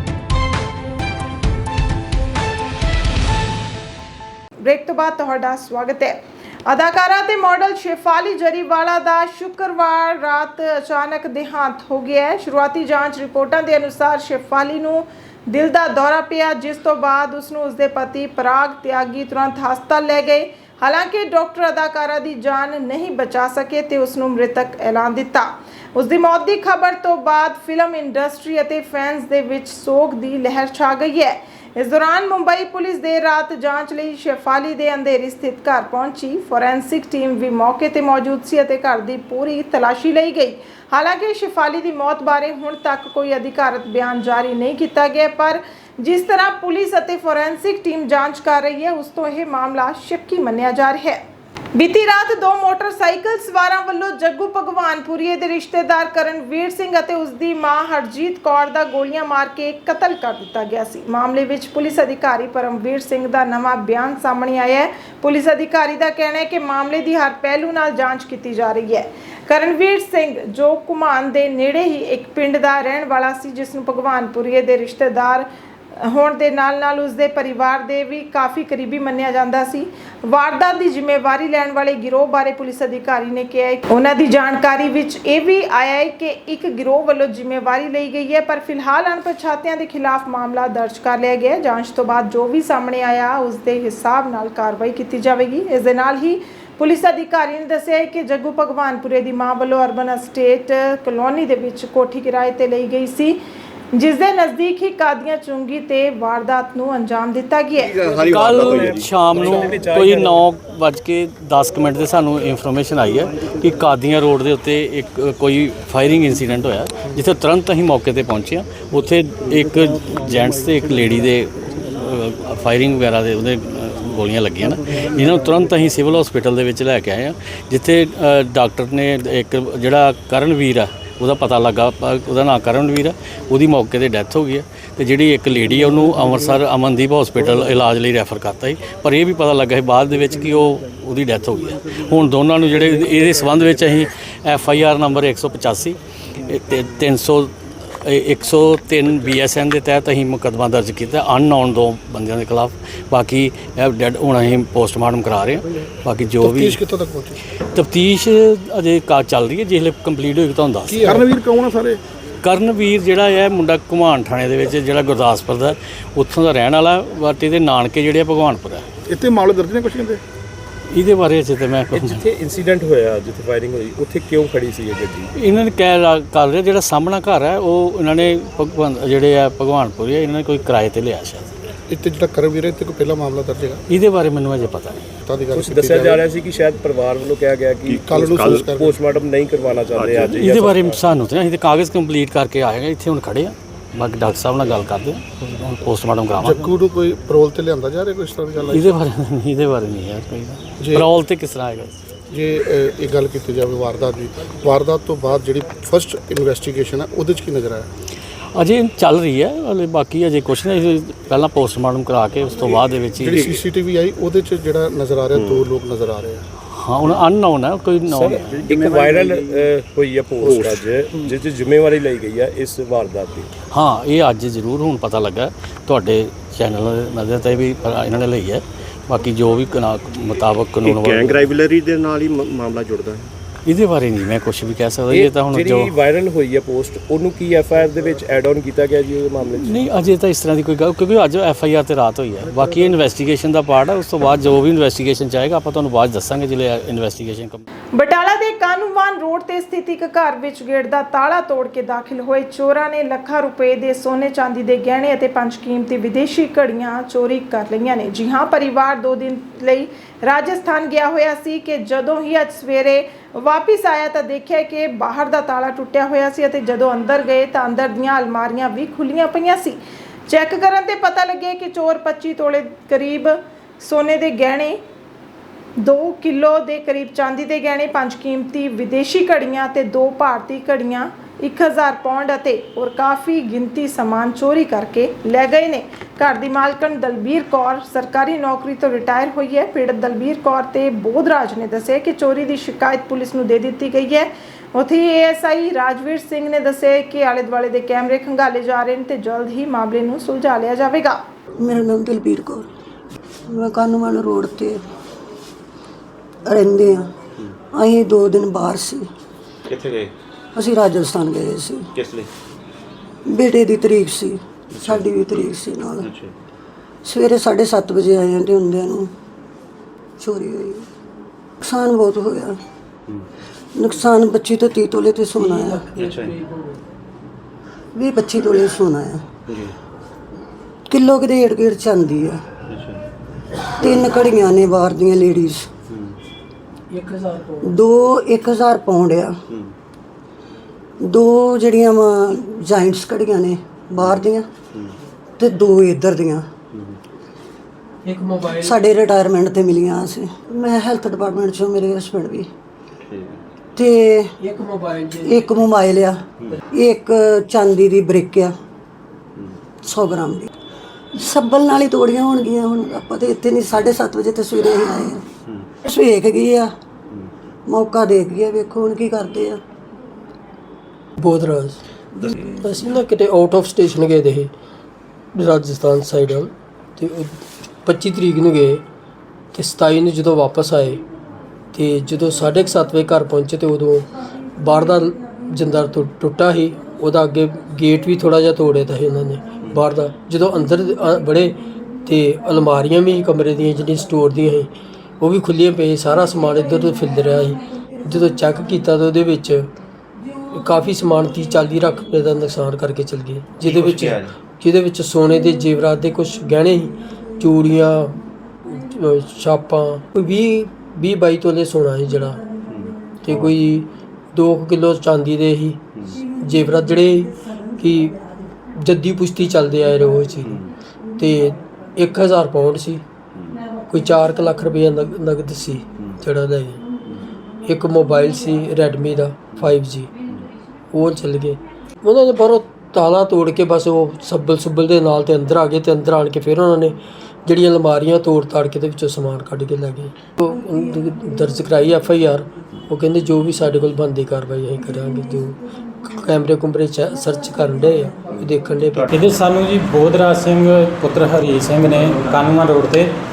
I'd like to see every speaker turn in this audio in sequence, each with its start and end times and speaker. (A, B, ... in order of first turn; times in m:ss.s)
0:04.6-0:51.2 A
0:51.7-1:15.5 A
1:16.0-1:43.4 A
1:43.9-1:48.0 A
1:47.8-1:50.4 B
1:48.1-2:27.5 C
2:28.0-2:36.8 C
2:36.4-2:37.4 D
2:37.7-2:41.3 C
2:40.9-2:42.0 D
2:42.4-2:48.9 C
2:49.1-2:50.2 D
2:50.9-2:52.2 C
2:51.9-2:55.3 B
2:55.4-3:01.6 C
3:01.9-3:03.8 D
3:03.9-3:05.1 C
3:05.2-3:06.2 D
3:05.5-3:08.0 B
3:07.9-3:08.7 E
3:08.0-3:09.0 D
3:08.6-3:11.0 B
3:09.9-3:10.4 E
3:10.1-3:16.7 C
3:16.4-3:18.9 D
3:18.7-3:21.9 C
3:20.8-3:21.1 D
3:22.3-3:27.9 D
3:28.5-3:33.6 C
3:33.2-3:36.4 D
3:35.4-3:35.6 B
3:36.7-3:39.2 C
3:38.1-3:43.5 B
3:43.7-3:51.6 C
3:50.8-3:52.0 B
3:50.8-3:53.0 E
3:52.6-3:53.2 B
3:53.6-3:56.0 C
3:55.1-3:59.9 B
3:59.5-4:07.6 C
4:02.5-4:02.8 B
4:07.9-4:34.8 A
4:35.8-5:01.2 A
5:01.6-5:02.7 F
5:03.5-5:04.8 F
5:06.4-5:07.1 F
5:07.7-5:09.1 F
5:09.7-5:10.1 E
5:10.5-5:11.9 F
5:12.0-5:12.3 E
5:13.2-5:16.1 F
5:14.7-5:15.0 E
5:16.0-5:16.3 E
5:17.0-5:19.1 F
5:20.2-5:20.9 F
5:21.6-5:22.6 F
5:23.7-5:25.9 F
5:25.6-5:26.6 G
5:26.0-5:26.3 E
5:27.9-5:29.2 F
5:30.9-5:32.4 F
5:32.7-5:33.0 E
5:33.8-5:35.7 F
5:36.9-5:37.7 G
5:37.6-5:39.4 F
5:41.0-5:44.5 F
5:45.4-5:46.5 F
5:48.0-5:48.8 G
5:48.6-5:52.5 F
5:53.1-5:53.4 E
5:53.7-5:54.3 F
5:54.4-5:55.6 G
5:55.2-5:58.6 F
5:59.8-6:00.5 F
6:01.1-6:05.3 F
6:05.8-6:06.7 F
6:07.6-6:09.6 F
6:11.2-6:11.8 G
6:12.6-6:14.5 G
6:15.3-6:18.8 G
6:19.5-6:21.0 G
6:21.7-6:39.7 G
6:40.5-6:52.4 G
6:43.6-6:44.3 E
6:52.7-6:53.5 E
6:53.2-6:55.8 G
6:56.4-6:58.2 G
6:58.8-7:00.6 G
7:01.2-7:03.0 G
7:03.9-7:06.8 G
7:07.6-7:10.1 G
7:10.9-7:29.1 G
7:29.1-7:33.1 H